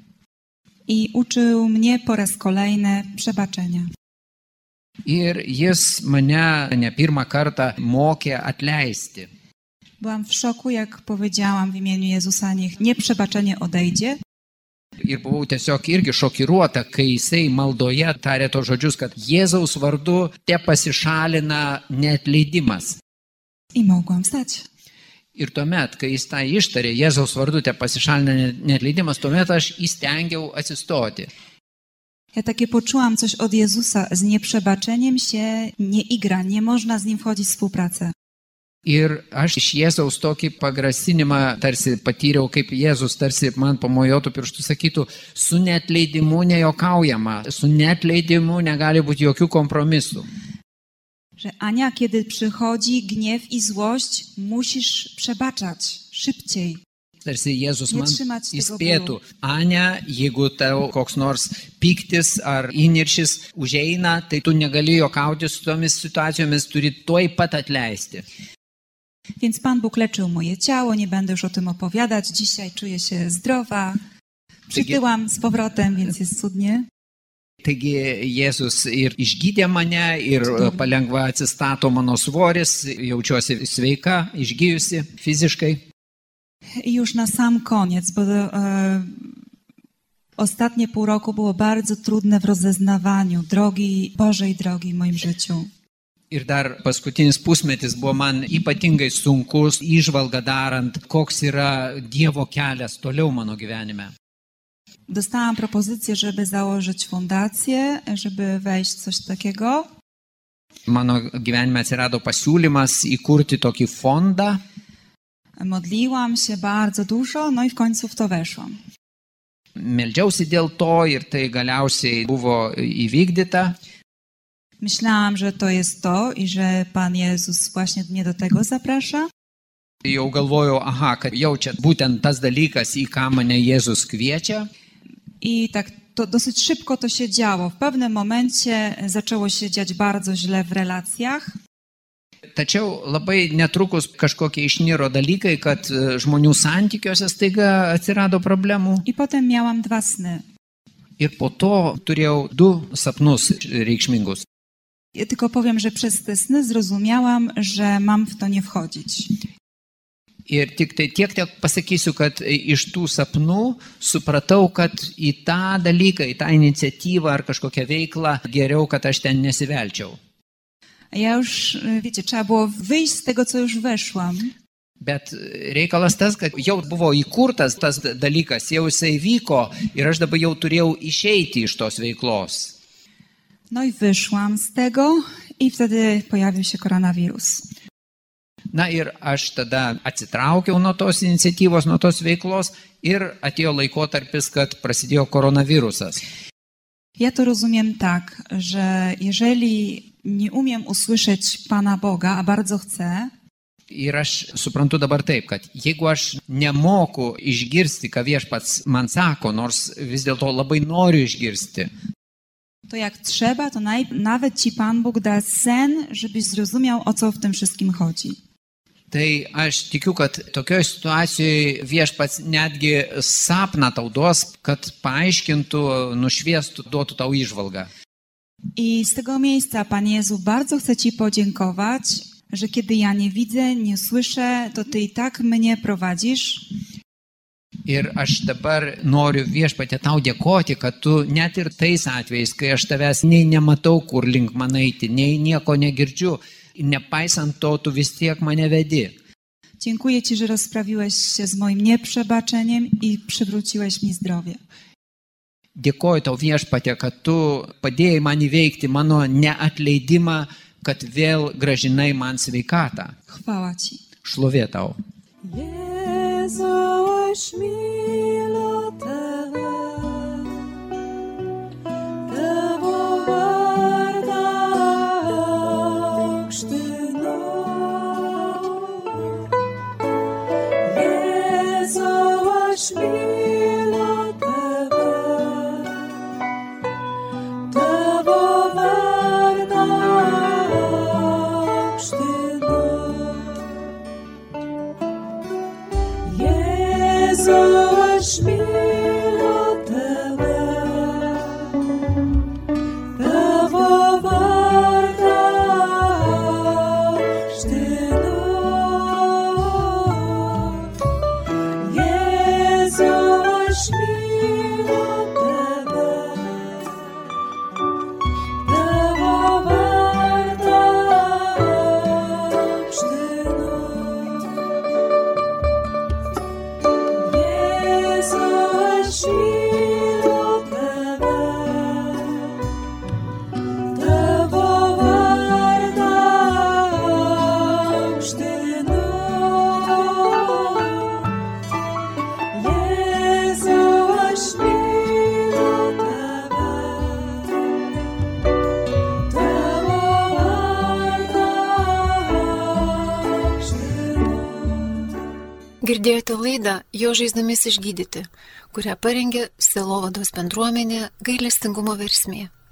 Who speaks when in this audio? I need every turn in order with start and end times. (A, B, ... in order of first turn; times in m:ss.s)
0:00.9-0:03.9 A
0:05.0-0:09.3 B
0:10.0-0:14.2 A
0:15.0-0:23.0 B
0:23.7-0:24.6 A
0:25.4-0:31.3 B
0:32.3-0:38.1 A
0:38.8-0:50.3 B
0:51.4-0:56.8 A
0:57.2-1:08.2 B
0:57.9-0:59.2 A
1:09.4-1:14.0 A
1:14.7-1:16.8 A
1:17.6-1:25.8 B
1:26.8-1:29.3 A
1:30.4-1:35.7 A
1:36.3-1:44.1 B
1:45.1-1:49.9 A
1:50.9-1:54.6 B
1:55.6-1:58.7 A
1:59.8-2:03.8 B
2:04.8-2:09.3 A
2:10.0-2:14.7 B
2:15.4-2:21.5 A
2:22.5-2:29.0 B
2:29.0-2:30.4 A
2:31.2-2:34.4 B
2:35.1-2:39.3 A
2:40.5-2:50.2 B
2:51.1-2:54.5 A
2:55.0-3:02.7 B
3:03.7-3:07.6 A
3:08.7-3:16.2 B
3:17.2-3:23.3 A
3:23.9-3:31.9 B
3:32.9-3:38.4 A
3:39.1-3:47.9 B
3:48.8-3:56.7 A
3:57.8-4:09.1 B
4:09.8-4:14.6 A
4:15.7-4:23.1 B
4:23.3-4:24.0 A
4:24.2-4:25.0 B
4:25.4-4:30.6 C
4:32.2-4:39.5 C
4:40.8-4:46.2 C
4:47.7-4:53.8 C
4:56.2-5:01.8 C
5:03.1-5:10.9 C
5:11.7-5:17.0 C
5:18.6-5:24.6 C
5:27.1-5:32.6 C
5:33.9-5:41.3 C
5:42.5-5:47.6 C
5:49.3-5:55.0 C
5:55.8-6:02.5 D